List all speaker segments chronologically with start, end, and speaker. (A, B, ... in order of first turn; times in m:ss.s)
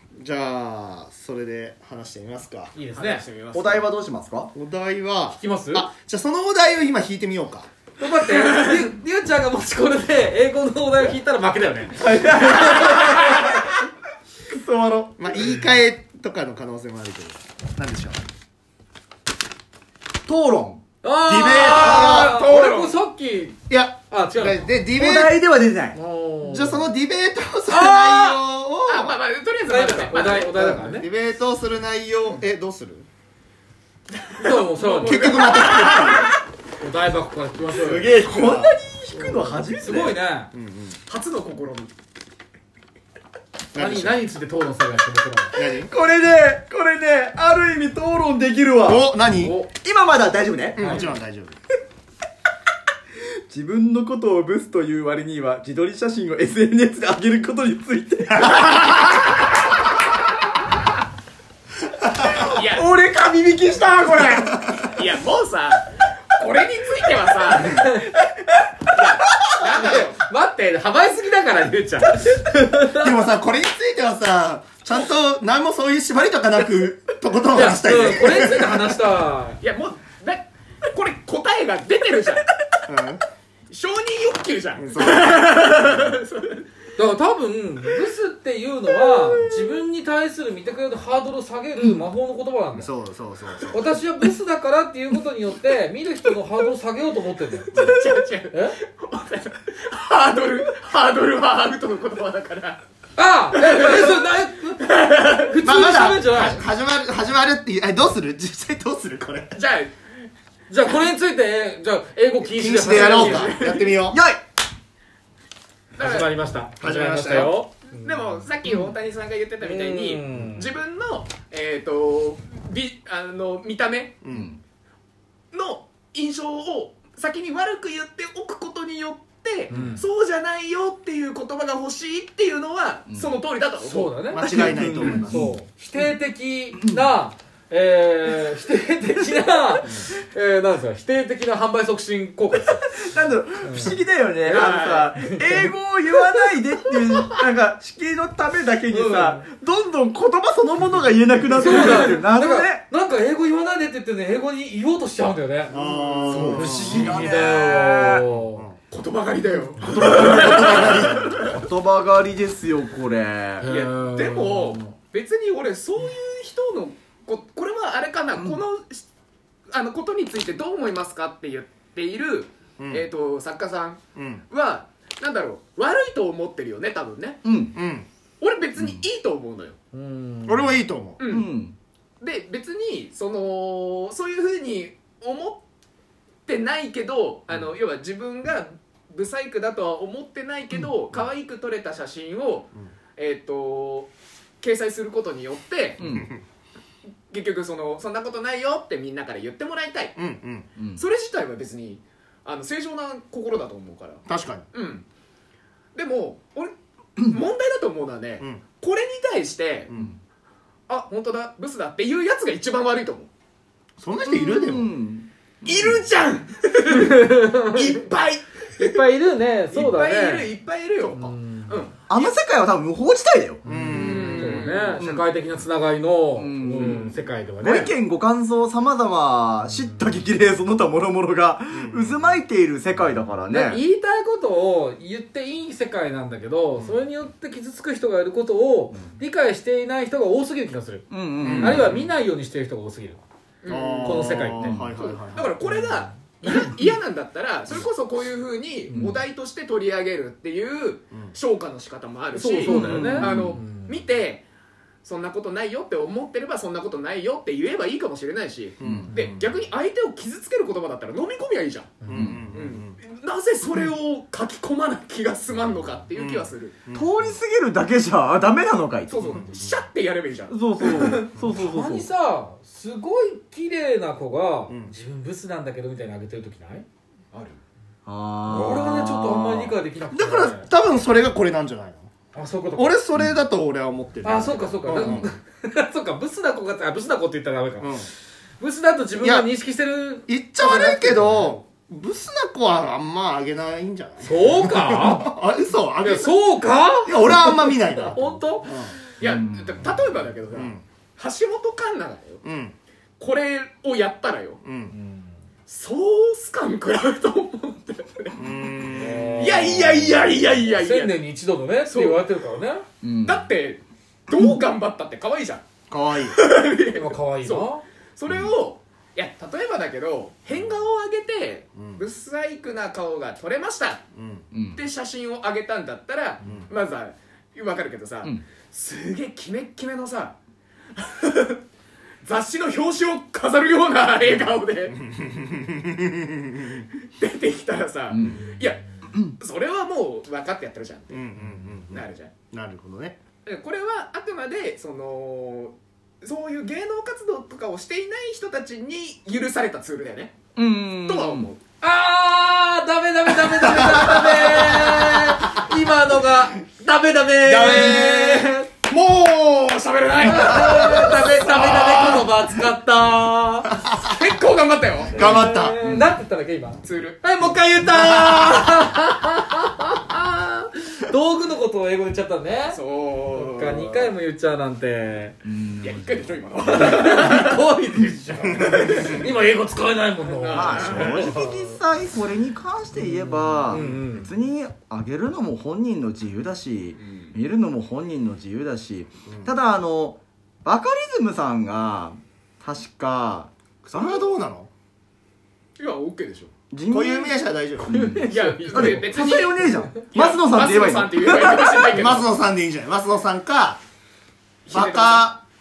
0:00.2-0:02.7 A
0:02.7-0:03.2 B
0:02.9-0:03.9 C
0:03.5-0:04.5 D
0:04.5-0:07.7 A
0:05.4-0:05.9 B
0:08.0-0:13.1 B
0:08.3-0:08.8 C
0:12.0-0:13.6 D
0:14.5-0:15.6 D
0:15.2-0:18.2 A
0:20.3-0:20.8 D
0:21.0-0:24.7 B
0:21.2-0:22.4 A
0:21.6-0:23.0 C
0:23.7-0:25.4 A
0:25.0-0:26.0 D
0:25.9-0:26.9 B
0:26.4-0:29.2 A
0:27.7-0:28.4 B
0:28.9-0:30.6 C
0:29.7-0:31.1 B
0:30.5-0:33.1 A
0:34.2-0:36.3 C
0:34.4-0:35.6 B
0:35.0-0:36.3 A
0:36.8-0:38.1 B
0:37.8-0:40.2 D
0:37.9-0:38.7 A
0:39.7-0:40.5 B
0:40.5-0:41.0 A
0:41.1-0:41.9 C
0:43.7-0:44.2 A
0:43.8-0:45.6 B
0:45.6-0:45.9 A
0:45.6-0:49.1 D
0:48.8-0:49.6 A
0:49.4-0:49.7 B
0:49.7-0:51.0 D
0:50.8-0:51.6 A
0:50.8-0:51.1 B
0:53.2-0:59.1 D
1:02.2-1:04.8 D
1:02.5-1:02.9 C
1:04.8-1:07.9 C
1:07.6-1:08.1 B
1:08.9-1:10.2 C
1:09.6-1:13.1 B
1:12.9-1:18.7 A
1:17.5-1:19.6 B
1:19.6-1:22.5 C
1:22.9-1:23.2 A
1:23.7-1:26.7 C
1:24.8-1:26.1 A
1:27.0-1:32.9 B
1:32.7-1:33.8 A
1:33.7-1:37.9 B
1:37.7-1:42.8 C
1:38.5-1:38.8 B
1:43.2-1:46.6 B
1:43.5-1:44.2 C
1:44.8-1:45.5 C
1:45.6-1:49.6 A
1:49.5-1:50.0 C
1:50.7-1:53.5 B
1:52.6-1:54.2 A
1:52.7-1:54.0 C
1:54.1-1:54.4 D
1:56.0-1:56.3 C
1:56.0-1:58.4 B
1:56.8-1:57.6 A
1:57.8-2:04.2 C
1:59.6-2:00.7 B
2:04.2-2:04.5 A
2:04.3-2:04.6 D
2:05.5-2:14.2 C
2:09.7-2:10.0 B
2:13.8-2:22.9 B
2:14.3-2:15.5 A
2:14.4-2:15.5 D
2:22.5-2:32.8 D
2:23.6-2:25.7 B
2:24.5-2:25.1 C
2:28.9-2:29.5 B
2:31.6-2:38.6 B
2:31.6-2:32.2 C
2:35.7-2:37.1 A
2:36.2-2:36.9 C
2:36.5-2:38.2 D
2:38.9-2:41.6 C
2:40.1-2:43.7 D
2:40.1-2:41.3 A
2:43.6-2:44.9 B
2:43.6-2:49.1 C
2:49.7-2:57.4 C
2:52.8-2:53.0 A
2:54.2-2:54.4 A
2:57.4-2:57.8 D
2:57.8-2:58.1 A
2:58.4-2:59.8 C
2:59.9-3:00.8 B
3:00.5-3:01.2 A
3:01.2-3:01.5 C
3:01.3-3:01.8 D
3:02.2-3:05.6 C
3:06.5-3:14.1 C
3:14.6-3:16.0 C
3:16.0-3:16.3 D
3:16.0-3:16.4 A
3:17.3-3:20.2 C
3:20.2-3:20.7 A
3:20.8-3:21.0 D
3:21.0-3:25.0 C
3:24.3-3:24.7 A
3:26.0-3:30.1 C
3:30.9-3:33.3 C
3:34.0-3:35.0 A
3:34.2-3:35.3 D
3:35.6-3:36.0 A
3:35.6-3:39.0 C
3:36.9-3:38.0 B
3:38.8-3:40.5 B
3:39.7-3:42.4 C
3:41.1-3:41.9 B
3:42.1-3:43.6 D
3:43.6-3:47.9 B
3:43.7-3:44.7 A
3:43.9-3:45.0 C
3:45.0-3:45.2 D
3:46.4-3:53.8 D
3:51.7-3:52.2 A
3:53.5-4:03.2 B
4:01.1-4:02.0 D
4:01.4-4:02.0 A
4:03.6-4:04.4 C
4:03.7-4:05.5 A
4:04.0-4:04.8 B
4:04.6-4:04.9 D
4:05.0-4:14.5 C
4:05.6-4:06.7 B
4:08.9-4:09.2 B
4:12.3-4:14.0 B
4:12.6-4:13.6 D
4:15.0-4:22.0 C
4:18.8-4:19.5 A
4:18.8-4:19.1 D
4:22.0-4:22.4 B
4:22.1-4:23.0 A
4:22.1-4:22.5 D
4:22.5-4:26.8 C
4:26.2-4:27.4 A
4:26.9-4:29.2 D
4:29.1-4:31.3 C
4:30.5-4:32.1 D
4:31.5-4:36.9 B
4:34.7-4:34.9 A
4:37.3-4:37.6 C
4:38.1-4:39.8 D
4:38.5-4:40.7 B
4:40.1-4:42.1 A
4:42.3-4:43.0 B
4:42.8-4:45.3 A
4:44.2-4:51.6 B
4:47.8-4:48.1 A
4:49.2-4:49.5 A
4:50.3-4:56.4 A
4:54.2-4:55.4 B
4:56.0-4:58.9 B
4:57.0-4:59.0 A
4:59.2-5:02.4 C
4:59.2-5:00.0 D
5:00.5-5:00.8 A
5:02.4-5:02.7 A
5:03.2-5:04.6 C
5:04.6-5:04.9 A
5:04.9-5:05.3 B
5:05.7-5:08.4 C
5:08.4-5:09.5 A
5:09.0-5:09.9 B
5:09.4-5:11.2 C
5:10.6-5:12.9 B
5:11.9-5:12.2 C
5:13.0-5:13.5 D
5:13.2-5:15.6 C
5:15.9-5:16.4 A
5:16.2-5:24.0 C
5:16.9-5:17.8 B
5:21.8-5:22.0 A
5:24.2-5:24.5 A
5:24.5-5:24.8 D
5:24.7-5:30.4 C
5:31.0-5:31.6 C
5:32.2-5:35.0 C
5:35.0-5:36.8 A
5:37.2-5:38.8 C
5:38.1-5:38.5 D
5:39.4-5:41.2 C
5:41.1-5:43.2 A
5:41.9-5:42.3 C
5:43.4-5:51.6 C
5:50.6-5:51.5 D
5:51.8-5:58.7 B
5:53.9-5:54.8 A
5:53.9-5:54.6 C
5:57.4-6:02.3 C
6:00.2-6:03.8 B
6:00.6-6:00.8 A
6:04.0-6:05.3 C
6:05.1-6:05.8 A
6:05.2-6:12.8 B
6:05.8-6:06.2 D
6:06.8-6:07.2 C
6:07.8-6:08.6 A
6:12.7-6:14.1 C
6:13.3-6:15.4 B
6:15.4-6:16.1 D
6:15.8-6:17.5 C
6:16.6-6:21.8 B
6:18.6-6:19.0 A
6:20.2-6:21.3 C
6:20.5-6:34.3 D
6:23.0-6:24.3 B
6:23.7-6:24.1 A
6:27.0-6:27.4 C
6:33.8-6:34.7 A
6:35.8-6:36.5 C
6:36.7-6:42.1 D
6:36.9-6:38.3 A
6:38.3-6:42.3 C
6:38.7-6:39.0 B
6:41.9-6:43.8 A
6:44.7-6:45.3 C
6:44.7-6:45.4 A